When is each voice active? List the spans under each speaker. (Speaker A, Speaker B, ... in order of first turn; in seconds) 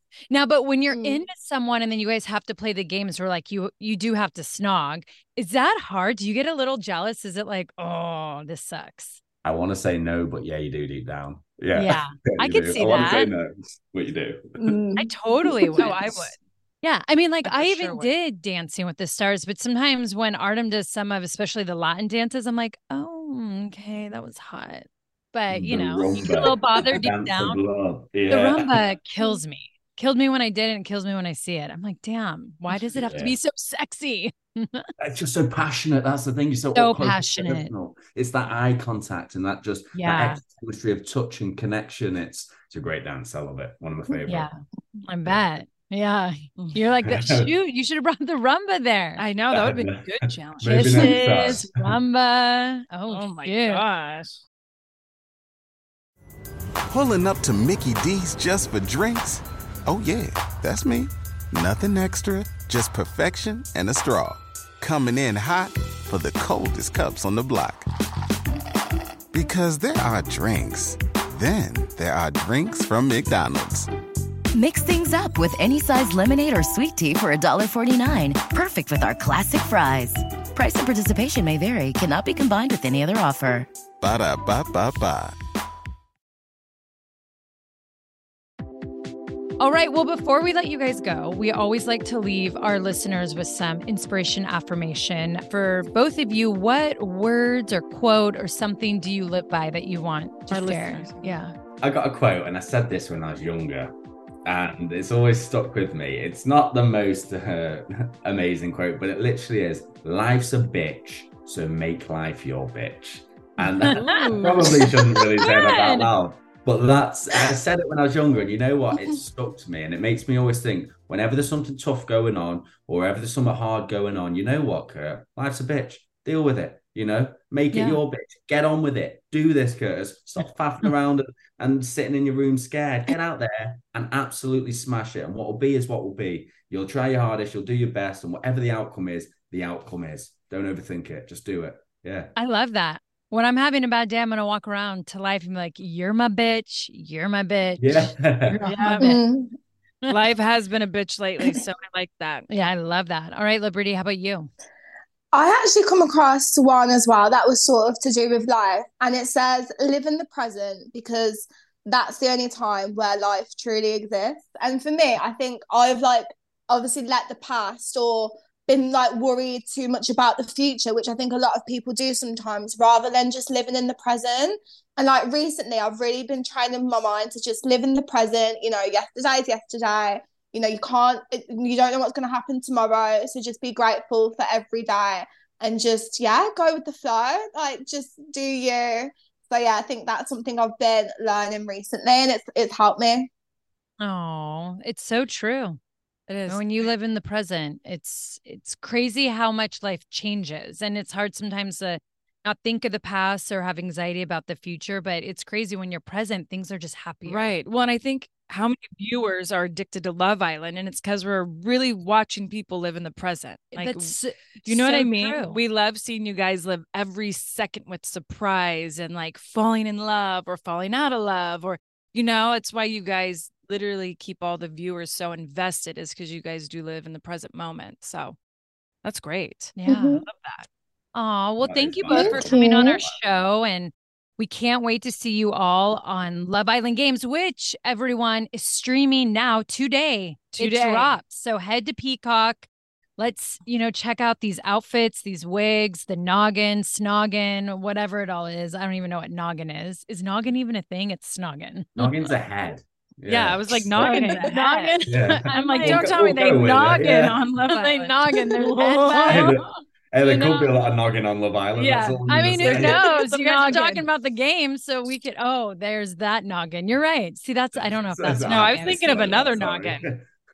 Speaker A: 0.3-9.2, 11.7-13.3, 15.0-27.6, 28.3-34.9, 36.7-37.7, 39.9-40.4, 44.2-49.2, 50.6-53.8, 89.6-101.5, 113.6-114.3, 115.4-116.1, 127.7-128.0, 142.3-149.2, 152.5-154.5, 194.0-195.8, 196.5-207.5, 213.7-215.6, 229.8-230.2, 231.1-242.7, 243.2-252.0, 254.0-256.3, 257.7-259.7, 260.2-260.7, 262.2-269.3
Speaker B: 0.9-1.2, 14.6-16.0, 148.9-149.5, 155.3-193.3, 229.8-230.2, 232.1-233.0
Speaker C: 9.4-14.7, 25.5-28.8, 32.7-33.4, 35.0-44.5, 47.0-47.5, 49.5-51.9, 101.8-142.3, 147.8-148.6, 231.6-233.1, 252.0-254.3, 255.1-257.4, 259.2-263.0, 267.7-270.3
Speaker D: 15.8-16.1, 17.4-18.1, 49.2-51.6, 53.1-54.4, 100.5-101.3, 113.9-114.6, 148.5-149.1, 150.1-152.5, 196.3-196.9, 207.2-228.4, 229.0-230.7, 240.6-241.2, 253.3-259.6, 261.8-264.1, 268.4-270.1
Speaker E: 56.9-67.8, 69.3-73.9, 84.0-85.3
Speaker F: 74.5-83.7